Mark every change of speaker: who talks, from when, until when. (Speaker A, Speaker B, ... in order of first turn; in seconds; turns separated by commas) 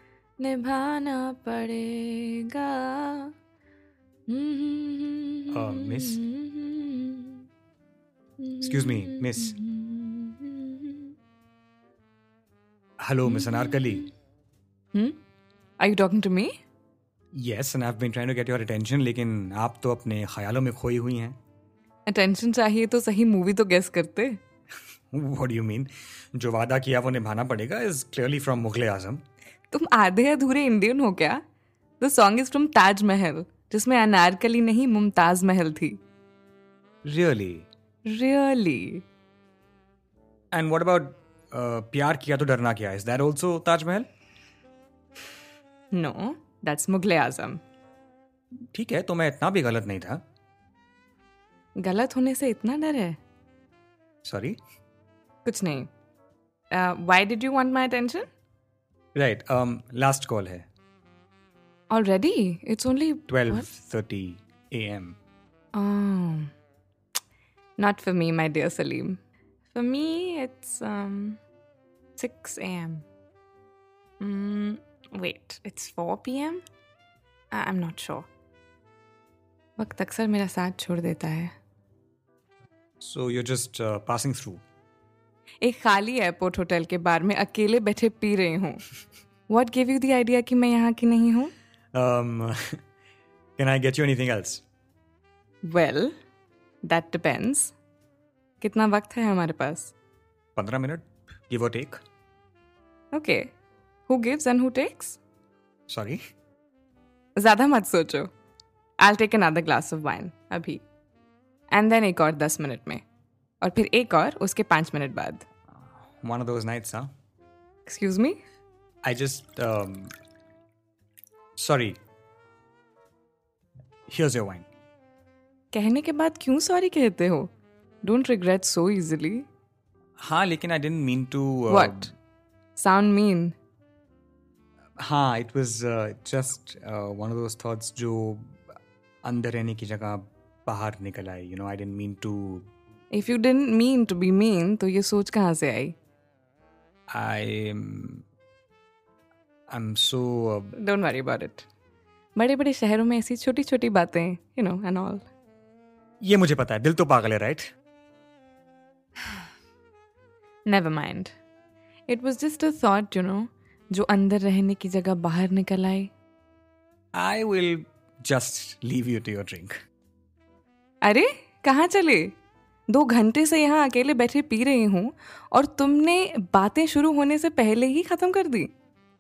Speaker A: 0.4-3.3, Speaker A: 4.3-7.4, Speaker B: 5.5-6.2, Speaker A: 8.4-11.1, Speaker B: 8.6-9.6, Speaker B: 13.0-14.1, Speaker A: 13.3-14.0, Speaker A: 15.8-16.6, Speaker B: 17.3-21.4, Speaker A: 22.1-24.4, Speaker B: 25.1-29.2, Speaker A: 29.7-31.4, Speaker A: 32.0-36.0, Speaker B: 37.0-37.7, Speaker A: 38.1-39.0, Speaker B: 40.5-44.1, Speaker A: 45.9-47.6, Speaker B: 48.7-50.2, Speaker A: 51.8-53.2, Speaker B: 54.2-54.6, Speaker A: 55.5-55.9, Speaker A: 56.7-58.3, Speaker B: 59.1-60.7, Speaker A: 61.9-63.7, Speaker B: 63.3-65.2, Speaker A: 65.7-66.5, Speaker A: 67.8-71.4, Speaker A: 72.2-73.0, Speaker A: 74.2-76.6, Speaker A: 77.5-78.3, Speaker A: 79.8-81.5, Speaker B: 83.0-84.6, Speaker A: 85.6-88.8, Speaker A: 89.5-91.5, Speaker B: 91.9-92.8, Speaker B: 93.6-94.6, Speaker A: 95.6-96.2, Speaker A: 96.8-97.7, Speaker A: 98.6-99.9, Speaker B: 100.6-102.0, Speaker A: 103.1-103.5, Speaker A: 104.1-105.2, Speaker B: 105.9-106.2, Speaker A: 107.4-108.3, Speaker A: 109.0-110.8, Speaker A: 111.7-113.0, Speaker A: 113.6-115.5, Speaker B: 116.2-117.1, Speaker A: 117.9-118.4, Speaker B: 119.0-120.1, Speaker B: 121.6-122.0, Speaker B: 124.1-124.7, Speaker A: 125.7-127.5, Speaker A: 128.0-129.5, Speaker B: 130.2-132.1, Speaker A: 131.7-132.1, Speaker A: 132.8-133.6, Speaker B: 135.0-138.6, Speaker B: 139.2-142.7, Speaker A: 143.1-145.9, Speaker B: 147.1-148.2, Speaker B: 149.7-150.7, Speaker A: 150.8-151.7, Speaker A: 152.3-155.3, Speaker B: 156.2-157.7, Speaker A: 160.7-161.3, Speaker A: 162.1-166.1, Speaker B: 167.2-169.7, Speaker A: 171.0-172.4, Speaker A: 172.9-178.7